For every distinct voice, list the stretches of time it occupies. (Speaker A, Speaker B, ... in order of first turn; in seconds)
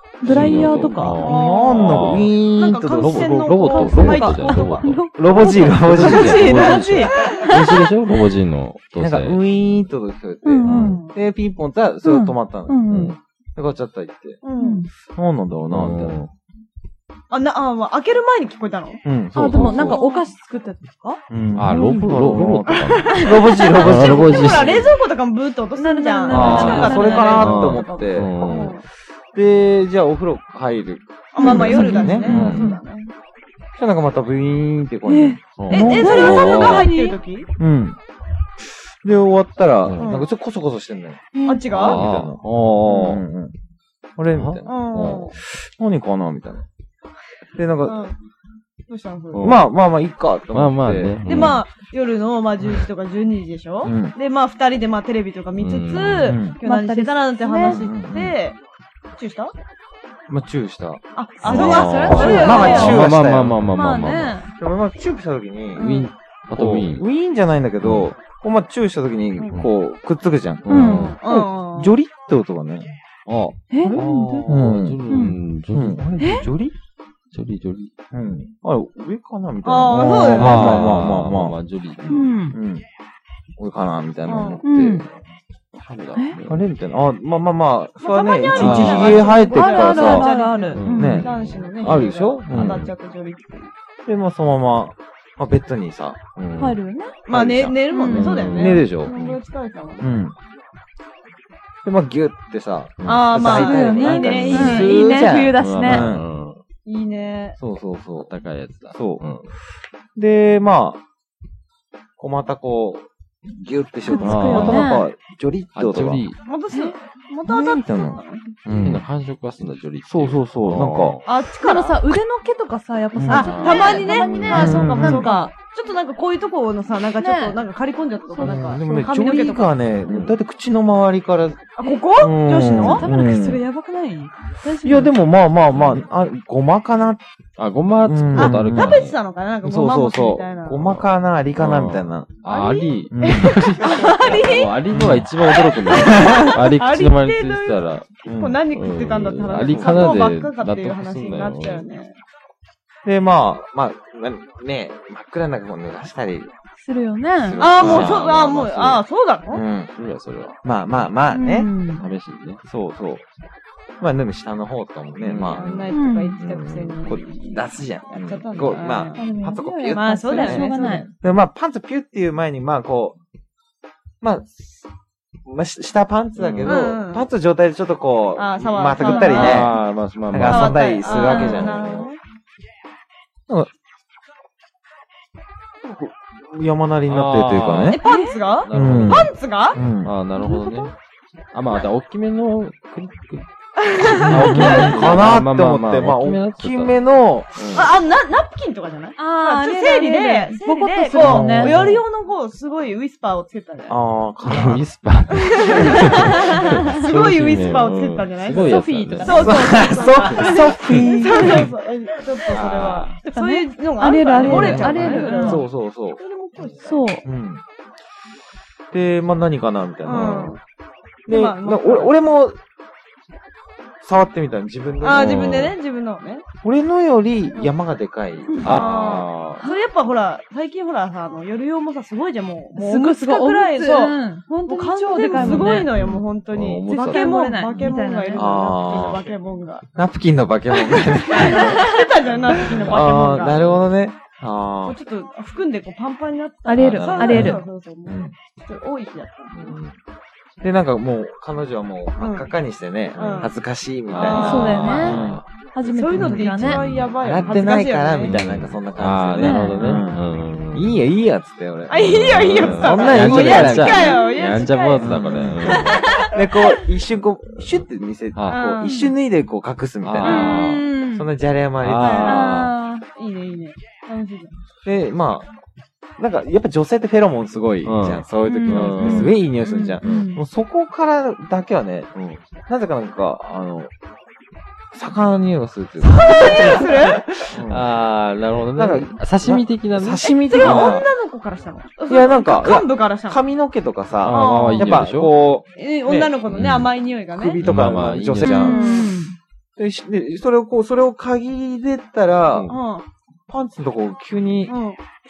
Speaker A: 0.2-1.4, 3.7-7.9, 10.4-11.0, 12.0-13.2, 14.6-14.9, 19.3-22.1, 25.8-27.5, 31.4-32.8, 35.0-37.2, 41.3-41.7, 56.6-57.8, 61.4-63.1, 63.7-64.5, 70.7-71.2, 73.7-75.4, 76.2-76.5, 82.1-82.5, 84.6-85.0, 88.8-91.3, 96.6-97.2, 97.9-98.5, 103.4-106.0, 114.0-115.0, 121.6-125.5, 127.2-127.6, 128.3-129.6, 132.6-135.1, 143.8-144.7, 156.8-157.6, 161.3-162.1, 165.9-166.3, 169.1-171.1, 179.0-179.7, 181.0-181.7, 188.1-188.4, 190.4-190.9, 199.2-201.8, 208.6-211.7, 213.3-215.6, 216.8-217.2, 228.5-228.8, 232.8-235.9, 236.9-238.6, 241.4-241.7, 246.7-247.6, 254.2-256.8, 259.4-260.0, 264.0-264.4, 270.2-271.3, 272.2-273.1, 278.4-280.4, 298.4-299.4
Speaker B: 0.2-2.4, 2.9-5.1, 5.6-9.4, 10.6-10.9, 12.9-13.2, 15.7-16.3, 21.6-24.9, 26.3-28.8, 31.5-32.7, 35.6-36.9, 39.8-40.2, 41.7-43.2, 44.3-44.6, 49.3-49.6, 50.5-51.6, 55.5-56.4, 61.5-64.4, 65.8-67.0, 67.8-68.1, 70.6-71.2, 73.2-76.0, 77.3-77.9, 80.3-82.3, 85.8-86.6, 88.5-89.2, 90.7-92.9, 96.3-96.8, 98.0-99.3, 103.0-103.3, 104.5-104.9, 105.5-106.6, 108.2-109.5, 114.2-114.9, 115.7-116.4, 118.7-121.2, 123.3-124.8, 130.1-130.3, 135.7-136.0, 137.6-139.1, 140.8-148.1, 148.7-151.8, 157.8-159.0, 159.9-160.6, 162.0-162.6, 165.2-167.1, 176.4-176.8, 179.3-180.9, 187.1-188.0, 188.6-189.3, 190.0-190.9, 191.5-197.0, 197.5-197.9, 201.2-202.0, 204.4-209.7, 210.3-211.0, 212.5-213.1, 214.4-214.9, 225.1-225.7, 228.6-229.6, 235.3-237.3, 242.4-243.8, 246.8-247.5, 249.5-249.9, 254.1-255.4, 256.6-257.7, 258.2-261.0, 262.0-266.1, 268.3-268.6, 270.0-270.9, 271.8-272.7, 277.8-279.4, 280.0-280.3, 282.1-282.4, 287.4-291.0, 294.2-295.3, 296.5-296.9, 297.6-298.7
Speaker C: 0.2-3.3, 5.1-6.8, 9.0-13.0, 13.6-14.4, 15.1-16.3, 19.0-20.0, 21.3-24.8, 26.3-28.4, 29.3-32.6, 33.8-36.9, 37.6-38.0, 38.6-43.5, 44.2-46.6, 47.5-48.0, 49.4-51.5, 53.8-54.1, 56.2-56.6, 57.6-58.4, 60.3-63.6, 64.5-65.9, 66.5-72.9, 73.8-75.0, 75.7-76.7, 78.1-81.6, 82.5-82.8, 83.6-85.2, 86.5-90.3, 90.9-92.9, 94.0-96.2, 97.3-99.1, 100.0-100.3, 101.8-106.2, 107.6-108.3, 108.9-109.2, 110.2-111.0, 112.2-116.2, 117.5-119.0, 120.0-121.2, 123.1-123.5, 124.5-125.3, 128.4-131.6, 132.2-133.6, 134.8-137.2, 138.0-139.0, 139.6-142.3, 143.1-143.7, 144.9-146.4, 148.2-148.6, 149.6-150.2, 153.0-156.5, 157.4-158.2, 159.5-159.9, 160.6-161.7, 162.6-163.2, 164.0-165.8, 167.1-173.2, 174.2-174.8, 175.4-182.1, 185.8-188.0, 188.7-190.1, 194.2-197.8, 201.1-202.0, 203.9-204.8, 205.7-206.4, 209.2-211.7, 214.4-216.2, 217.2-217.6, 218.9-220.6, 221.2-222.6, 224.0-225.4, 226.6-229.2, 235.4-236.2, 238.3-239.3, 239.9-245.0, 246.8-248.3, 250.6-255.4, 256.1-264.2, 265.0-272.6, 274.8-275.5, 276.2-282.1, 282.7-283.9, 284.9-287.9, 288.7-291.1, 292.1-296.3, 297.3-298.9, 299.8-302.7, 303.5-304.7
Speaker D: 1.2-5.0, 6.9-7.8, 10.7-11.2, 14.4-14.8, 17.3-19.0, 19.6-20.2, 22.7-28.8, 31.3-33.1, 35.7-37.5, 40.0-40.3, 41.4-42.0, 44.6-45.3, 47.8-48.1, 48.9-49.6, 51.2-58.6, 59.1-59.5, 61.1-63.0, 65.8-66.1, 70.8-72.0, 79.6-80.9, 84.2-84.6, 88.0-93.7, 97.2-100.2, 103.0-105.0, 106.8-107.6, 116.4-118.4, 121.2-122.0, 123.3-129.7, 131.8-133.1, 138.3-140.9, 142.5-144.6, 145.7-152.2, 157.6-159.6, 165.5-169.2, 169.9-171.1, 176.6-177.3, 178.3-179.8, 180.4-182.2, 187.9-189.8, 193.8-195.3, 197.7-204.0, 205.4-217.1, 220.0-220.6, 221.3-222.1, 225.0-226.4, 228.6-239.8, 240.8-243.8, 244.8-249.8, 252.2-252.5, 253.1-253.5, 254.1-255.2, 255.8-258.4, 259.8-260.1, 261.9-266.7, 268.5-269.1, 272.0-272.6, 273.1-274.5, 279.6-279.9, 286.1-287.4, 290.2-293.4, 294.2-294.9, 295.7-297.6, 298.5-299.1, 302.7-303.0, 304.7-305.0